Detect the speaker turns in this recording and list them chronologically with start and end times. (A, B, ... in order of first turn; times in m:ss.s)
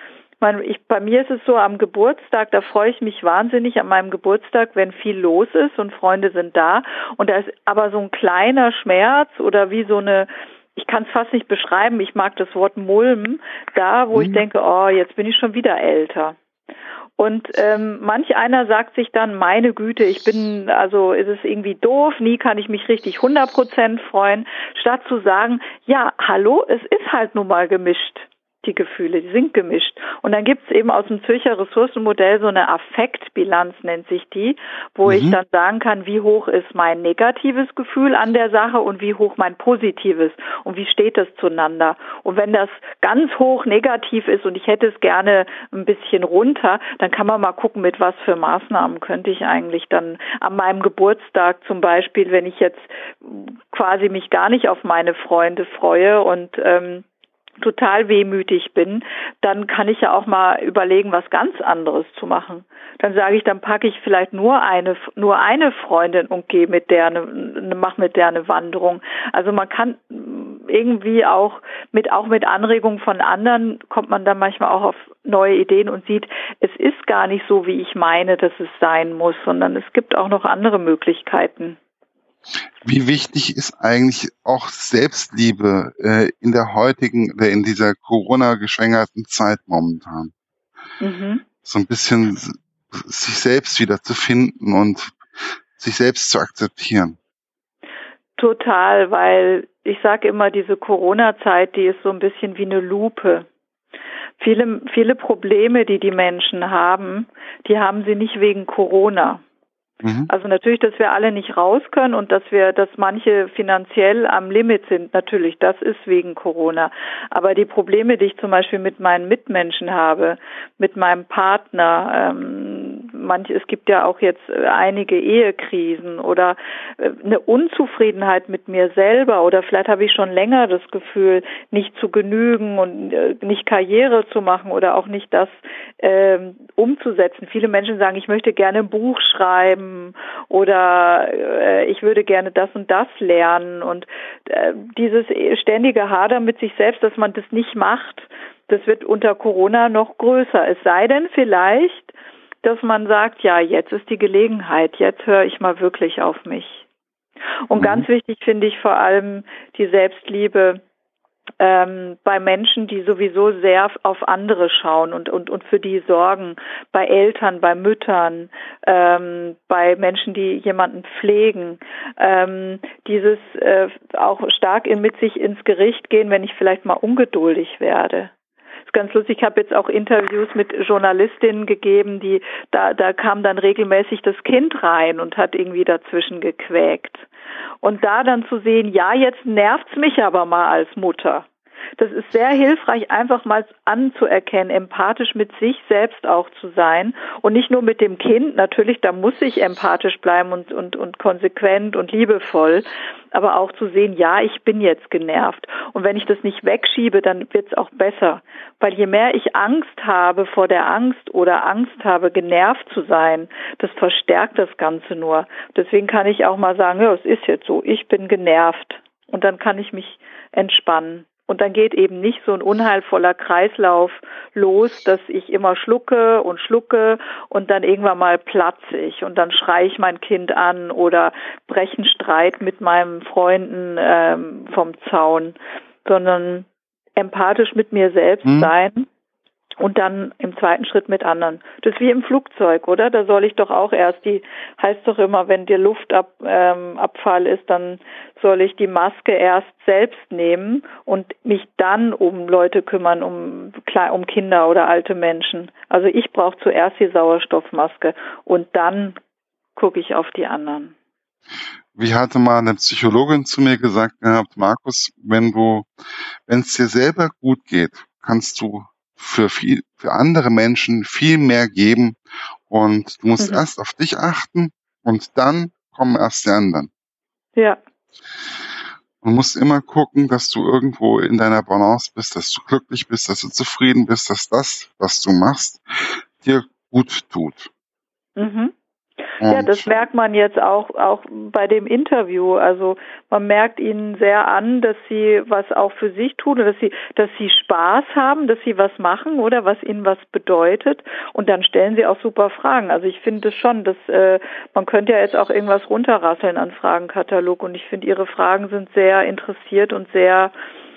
0:00.4-0:16.4 A
0:14.1-0:14.4 B
0:17.2-0:57.1 A
0:35.1-0:35.4 B
0:57.6-1:21.8 A
1:22.8-1:30.3 B
1:31.0-1:31.4 A
1:31.6-1:37.2 B
1:38.4-1:43.5 A
1:44.4-1:49.4 A
1:50.0-1:50.3 B
1:50.3-2:36.9 A
2:37.7-2:40.8 A
2:37.8-2:38.1 B
2:41.6-2:58.3 A
2:58.9-3:07.3 A
3:07.8-3:11.5 A
3:12.0-3:59.1 A
3:58.4-3:58.7 B
3:59.8-4:19.2 A
4:19.8-4:20.9 A
4:22.0-4:25.9 B
4:26.5-4:32.2 B
4:32.7-4:36.9 B
4:33.4-4:33.6 A
4:39.2-4:47.7 B
4:48.4-4:48.7 A
4:49.4-4:49.8 B
4:49.4-5:10.5 A